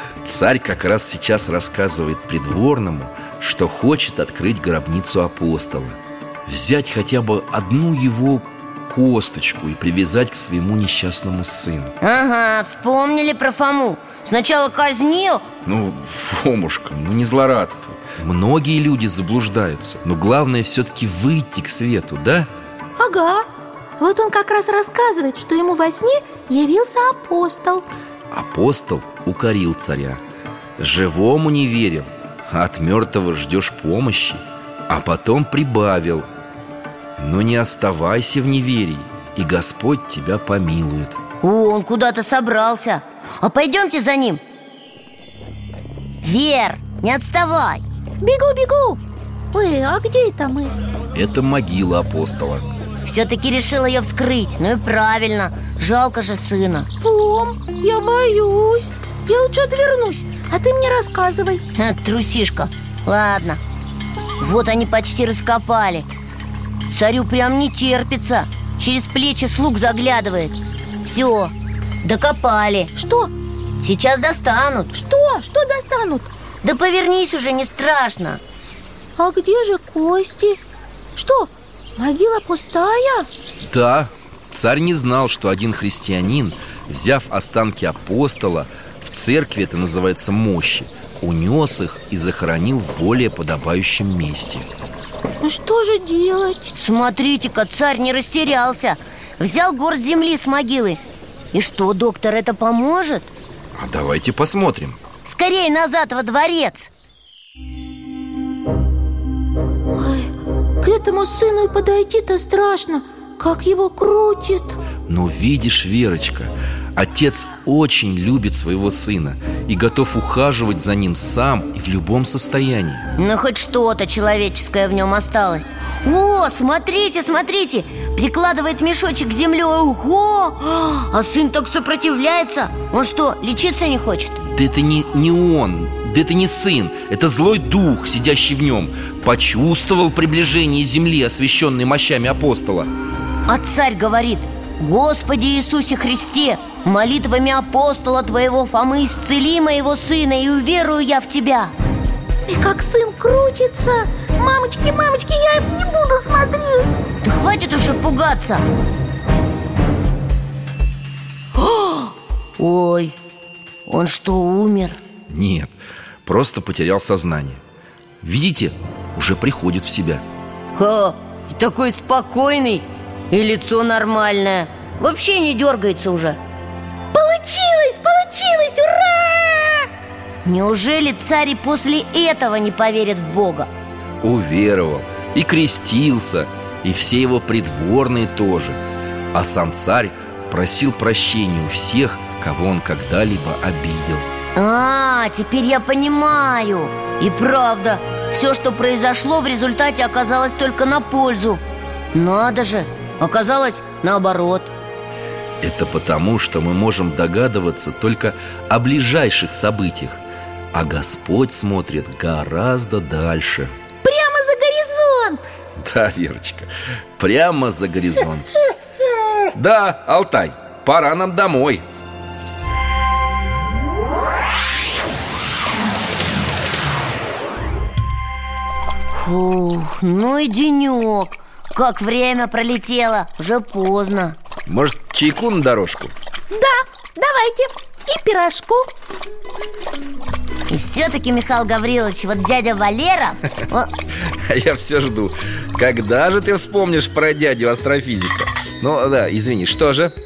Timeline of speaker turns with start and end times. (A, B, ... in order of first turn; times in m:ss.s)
0:00.2-0:12.0 A
0:12.0-0:15.5 B
0:15.6-0:22.5 A
0:23.0-0:23.5 C
0:24.0-0:27.9 C
0:28.3-0:30.2 A
0:30.8-0:36.3 A
0:37.2-0:41.2 A
0:41.4-0:44.4 B
0:46.2-0:47.8 B
0:48.2-0:49.0 C
0:49.5-0:50.8 C
0:51.2-0:52.7 A
0:53.0-0:56.9 B
0:57.0-1:01.6 C
1:01.8-1:03.6 B
1:04.4-1:06.1 B
1:06.9-1:12.9 B
1:13.0-1:13.3 C
1:13.8-1:14.9 B
1:14.9-1:16.3 C
1:16.6-1:18.4 B
1:19.2-1:20.6 C
1:21.2-1:23.3 C
1:23.7-1:34.7 A
1:35.4-1:36.7 C
1:36.8-1:41.0 B
1:41.5-1:43.3 B
1:43.8-1:45.0 A
1:45.2-1:46.9 B
1:49.9-1:54.8 C
1:55.1-2:03.1 A
2:03.2-2:14.4 B
2:14.5-2:22.9 A
2:23.5-2:31.7 B
2:32.5-2:37.0 C
2:37.2-2:38.6 B
2:42.6-2:43.2 B
2:43.9-2:45.0 B
2:45.3-2:45.7 A
2:46.2-2:47.6 A
2:48.2-2:50.2 A
2:50.8-2:56.4 B
2:57.1-2:59.9 C
3:00.4-3:03.7 B
3:04.2-3:08.8 A
3:09.3-3:14.3 A
3:14.6-3:21.6 B
3:22.1-3:24.7 B
3:25.6-3:30.2 A
3:30.7-3:33.7 A
3:34.0-3:35.4 C
3:35.8-3:38.5 A
3:39.5-3:41.8 A
3:49.1-3:54.4 B
3:54.7-3:56.1 A
3:56.5-3:58.9 C
4:00.7-4:03.9 B
4:04.2-4:10.1 A